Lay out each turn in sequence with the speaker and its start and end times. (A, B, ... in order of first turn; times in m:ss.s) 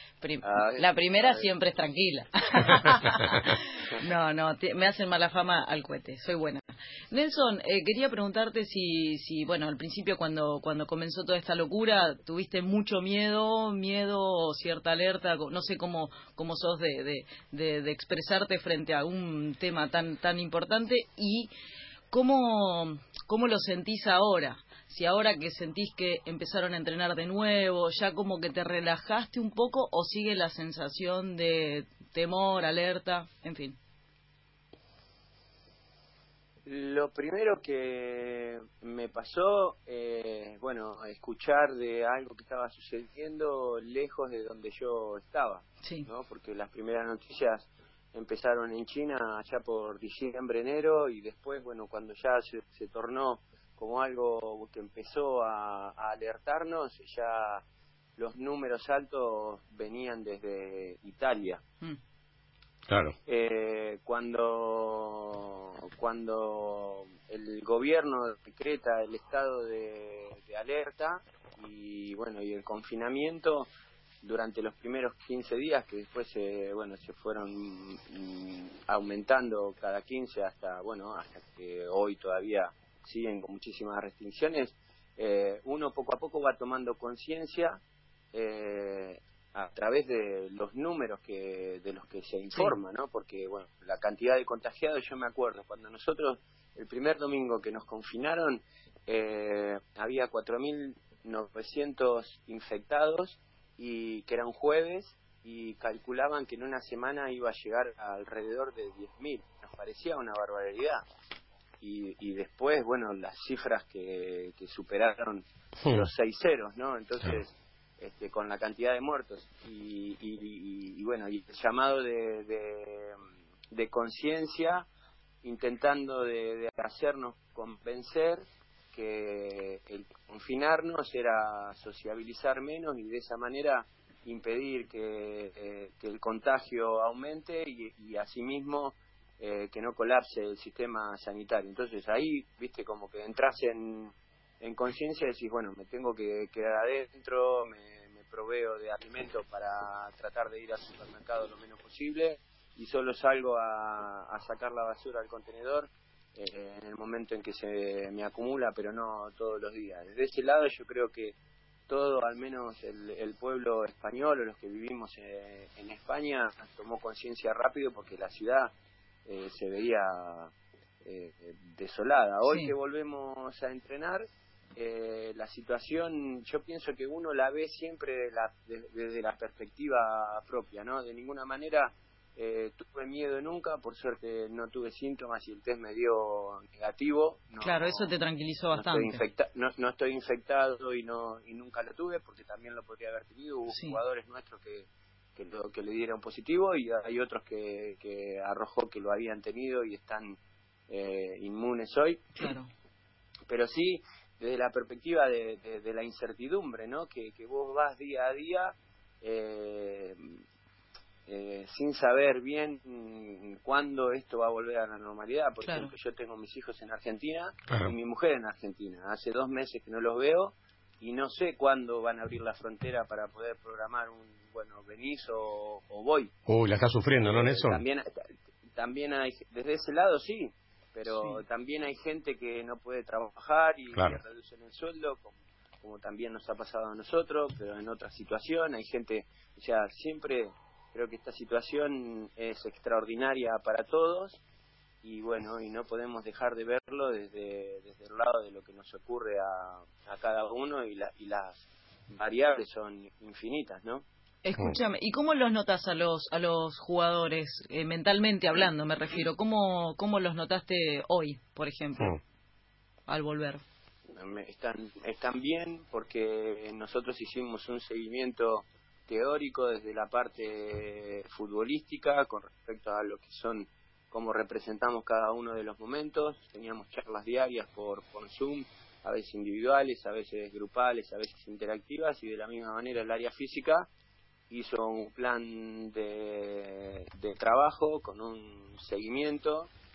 0:00.2-0:21.5 A
0:00.4-0:01.5 B
0:22.1-0:33.8 A
0:36.6-0:57.6 B
0:58.2-1:01.6 B
1:02.9-1:03.2 C
1:03.2-1:13.7 B
1:14.2-1:27.8 B
1:28.3-1:51.0 B
1:51.8-2:03.2 B
1:55.8-1:56.1 C
2:03.7-2:04.8 B
2:05.4-2:41.3 B
2:41.9-2:48.7 B
2:49.2-2:50.5 B
2:51.0-3:08.1 B
2:52.5-2:52.7 A
3:07.6-3:09.2 A
3:08.7-3:20.4 B
3:13.7-3:14.0 A
3:20.9-3:22.5 B
3:22.4-3:22.7 A
3:23.5-3:30.4 B
3:31.3-3:46.3 B
3:35.6-3:35.9 A
3:37.7-3:37.9 C
3:46.5-3:47.8 C
3:47.2-4:04.4 B
3:51.1-3:51.4 A
3:53.9-3:54.2 C
4:05.0-4:14.0 B
4:14.4-4:22.1 A
4:23.1-4:23.6 A
4:24.1-4:43.9 B
4:44.5-4:49.7 B